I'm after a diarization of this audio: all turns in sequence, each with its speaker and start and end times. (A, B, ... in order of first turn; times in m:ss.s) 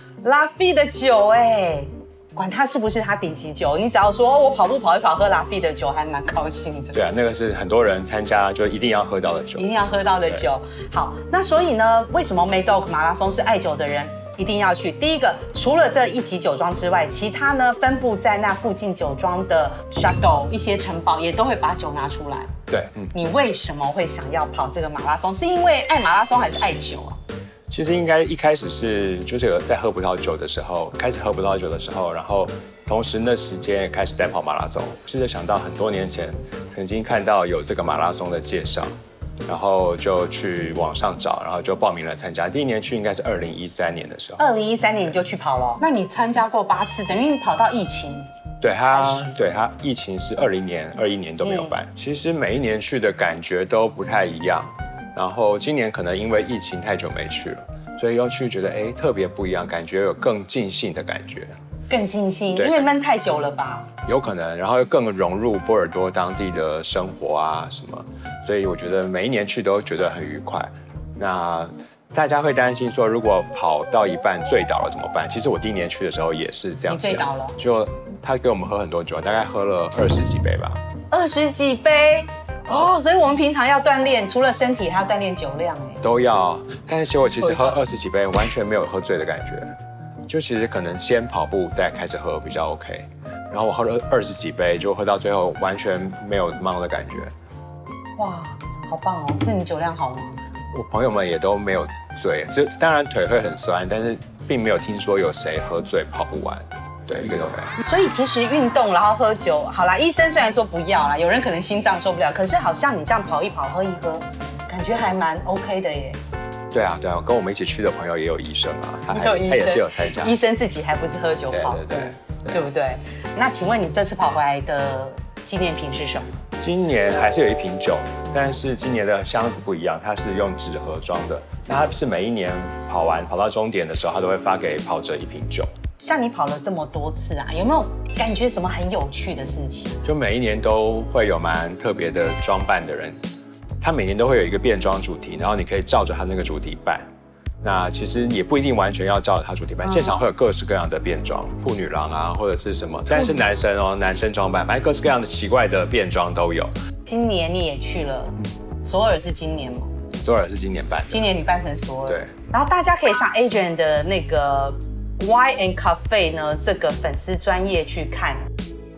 0:00.2-0:07.0 A
0:06.9-0:09.7 B
0:09.6-0:22.5 A
0:22.7-0:23.1 B
0:23.1-0:27.2 A
0:27.7-0:38.9 B
0:39.5-0:44.4 B
0:44.4-0:48.3 A
0:48.6-1:01.5 B
0:48.9-0:49.4 A
0:51.4-0:51.7 A
1:01.9-1:03.9 A
1:02.5-1:02.9 B
1:04.1-1:20.8 B
1:16.9-1:17.6 A
1:21.1-1:26.0 A
1:26.0-1:29.7 B
1:27.4-1:27.8 A
1:30.3-1:37.3 B
1:38.2-1:40.4 A
1:40.7-1:47.8 B
1:47.8-1:56.2 A
1:56.7-2:00.4 B
1:59.1-2:06.4 A
2:01.5-2:02.6 B
2:06.6-2:15.7 B
2:16.0-2:20.0 A
2:20.0-2:23.2 B
2:23.8-2:27.1 B
2:27.6-2:36.7 B
2:29.8-2:30.2 A
2:37.1-2:39.9 A
2:40.2-2:41.3 B
2:41.1-2:48.5 A